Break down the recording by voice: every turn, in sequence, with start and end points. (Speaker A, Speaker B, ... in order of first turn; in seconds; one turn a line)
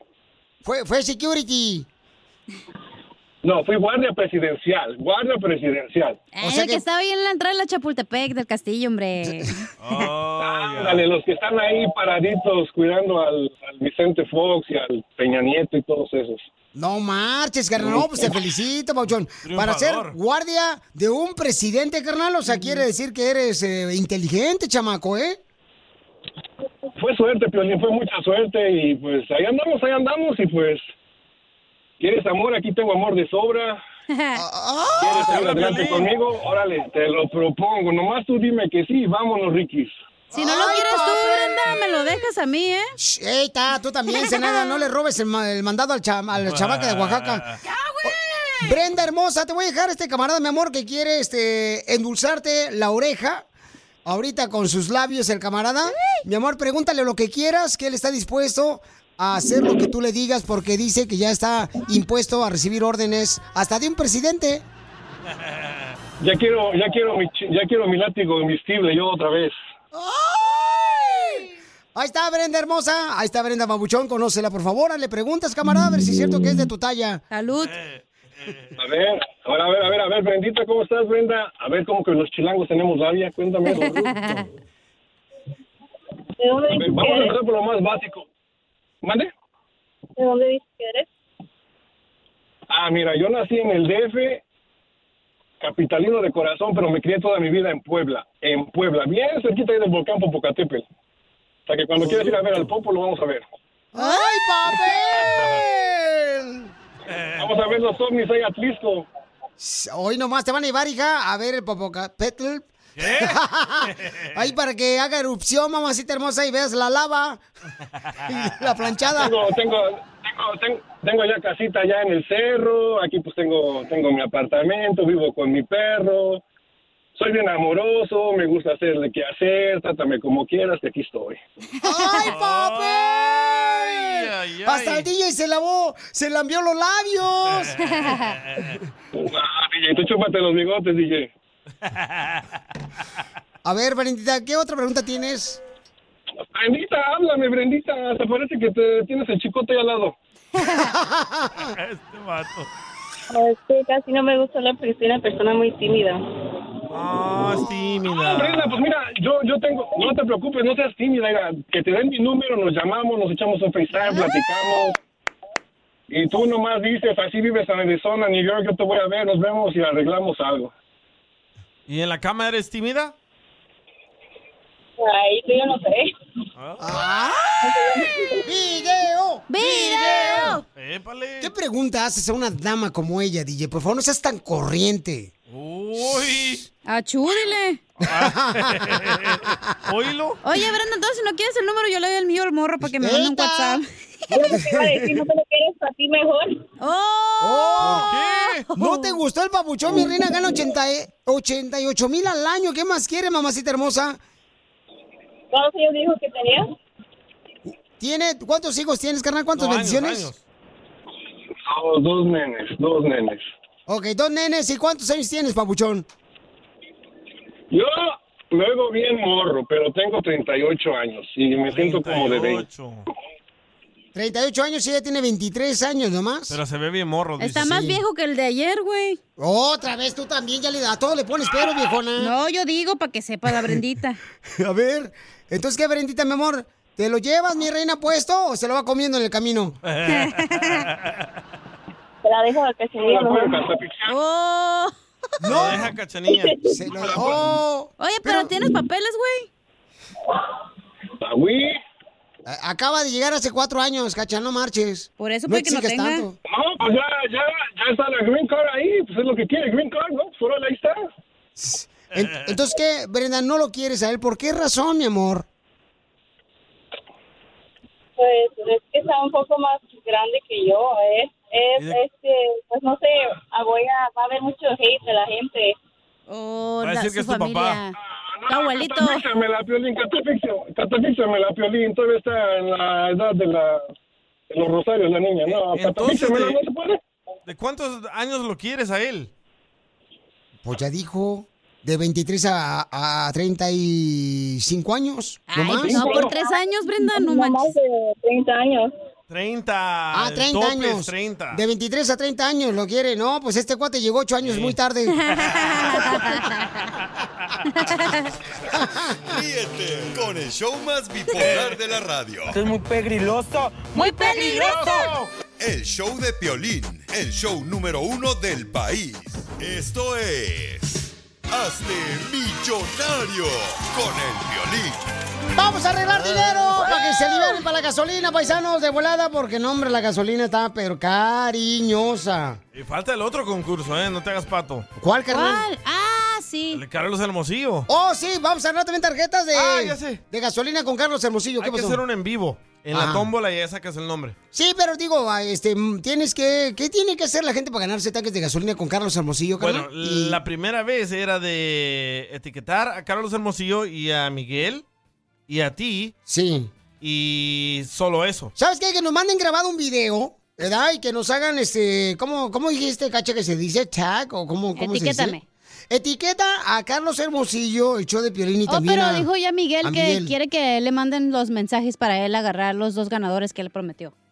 Speaker A: 0.7-1.9
Speaker B: 3.4-6.3
Speaker C: 6.3-9.6
Speaker A: 6.4-6.8
Speaker D: 9.8-11.0
Speaker B: 10.4-16.4
Speaker A: 16.8-25.4
Speaker D: 19.4-20.1
Speaker B: 27.0-30.9
Speaker B: 32.0-33.8
Speaker C: 34.1-34.4
Speaker A: 34.4-35.4
Speaker D: 35.0-36.1
Speaker B: 35.0-40.0
Speaker A: 40.3-41.8
Speaker C: 40.4-42.9
Speaker A: 43.0-47.4
Speaker C: 44.1-44.8
Speaker D: 46.4-47.6
Speaker C: 47.6-48.7
Speaker A: 48.6-53.4
Speaker A: 54.1-64.6
Speaker B: 66.2-69.6
Speaker A: 69.9-77.2
Speaker C: 77.3-77.7
Speaker D: 77.6-78.7
Speaker B: 78.8-84.3
Speaker C: 83.8-84.5
Speaker E: 86.4-87.3
Speaker B: 86.7-88.2
Speaker B: 89.0-89.3
Speaker E: 90.2-91.1
Speaker B: 92.7-94.4
Speaker B: 95.6-100.8
Speaker B: 101.7-103.4
Speaker A: 103.9-106.7
Speaker C: 104.0-104.3
Speaker D: 107.1-107.5
Speaker B: 107.4-109.1
Speaker A: 109.6-117.4
Speaker D: 113.0-114.2
Speaker A: 118.3-119.3
Speaker B: 119.2-126.4
Speaker B: 127.2-131.4
Speaker A: 131.8-137.7
Speaker D: 132.2-135.1
Speaker D: 137.5-138.7
Speaker C: 137.8-138.3
Speaker B: 139.2-141.3
Speaker D: 141.9-142.5
Speaker A: 143.7-145.6
Speaker B: 146.6-150.1
Speaker A: 150.6-151.7
Speaker D: 151.7-152.7
Speaker E: 153.3-156.2
Speaker D: 156.9-158.8
Speaker B: 158.1-165.0
Speaker B: 166.1-170.7
Speaker D: 171.9-173.1
Speaker E: 175.0-176.1
Speaker D: 176.6-176.8
Speaker A: 176.8-180.6
Speaker E: 177.6-178.4
Speaker C: 179.5-180.6
Speaker D: 180.8-181.5
Speaker A: 181.4-185.3
Speaker D: 185.5-186.6
Speaker A: 186.0-186.4
Speaker C: 186.9-187.8
Speaker A: 188.0-189.6
Speaker D: 188.1-190.4
Speaker C: 190.4-193.8
Speaker A: 193.0-195.2
Speaker E: 194.3-196.6
Speaker C: 196.8-199.2
Speaker A: 197.4-198.1
Speaker D: 197.8-198.7
Speaker A: 198.8-204.2
Speaker E: 205.5-206.7
Speaker A: 207.7-210.3
Speaker D: 209.6-210.4
Speaker B: 211.7-213.4
Speaker A: 213.9-216.1
Speaker B: 217.7-222.7
Speaker D: 221.7-223.1
Speaker A: 224.2-226.6
Speaker D: 226.5-227.9
Speaker C: 227.4-229.2
Speaker A: 227.6-227.9
Speaker A: 229.4-232.3
Speaker C: 232.2-234.2
Speaker A: 233.6-233.8
Speaker A: 234.6-239.8
Speaker D: 239.8-241.2
Speaker C: 240.1-240.8
Speaker E: 242.2-243.6
Speaker B: 243.0-244.1
Speaker C: 244.1-244.9
Speaker A: 245.4-245.9
Speaker D: 245.5-246.6
Speaker E: 246.3-246.8
Speaker A: 246.7-248.5
Speaker B: 247.1-247.4
Speaker C: 248.0-249.5
Speaker B: 251.2-251.8
Speaker A: 252.5-256.4
Speaker C: 255.2-256.3
Speaker B: 256.5-261.1
Speaker A: 261.6-265.5
Speaker D: 262.2-262.4
Speaker E: 268.2-275.8
Speaker C: 276.3-277.9
Speaker D: 276.8-277.8
Speaker B: 278.1-283.8
Speaker C: 278.5-279.2
Speaker B: 284.5-287.0
Speaker D: 285.5-286.6
Speaker D: 287.5-289.3
Speaker A: 290.6-296.3
Speaker C: 295.5-297.7
Speaker B: 295.8-296.2
Speaker E: 296.1-298.9
Speaker D: 299.3-301.6
Speaker A: 300.1-305.5
Speaker D: 304.4-304.8
Speaker C: 305.3-306.7
Speaker D: 305.3-306.0
Speaker C: 307.7-308.3
Speaker A: 308.7-309.2
Speaker F: 309.3-312.7
Speaker D: 311.4-311.8
Speaker G: 312.5-314.8
Speaker C: 314.0-315.0
Speaker D: 314.2-315.3
Speaker F: 315.6-325.1
Speaker A: 325.6-332.6
Speaker C: 326.8-327.6
Speaker D: 332.7-334.9
Speaker A: 335.0-335.7
Speaker C: 335.3-336.8
Speaker D: 336.7-337.9
Speaker A: 337.9-342.0
Speaker D: 339.5-340.2
Speaker D: 341.6-344.4
Speaker A: 342.9-343.3
Speaker A: 344.5-350.4
Speaker D: 349.6-354.8
Speaker D: 355.5-356.1
Speaker A: 356.3-356.7
Speaker D: 357.0-358.5
Speaker A: 358.6-365.4
Speaker C: 364.8-365.4
Speaker A: 365.9-369.3
Speaker C: 368.7-374.1
Speaker A: 369.8-370.3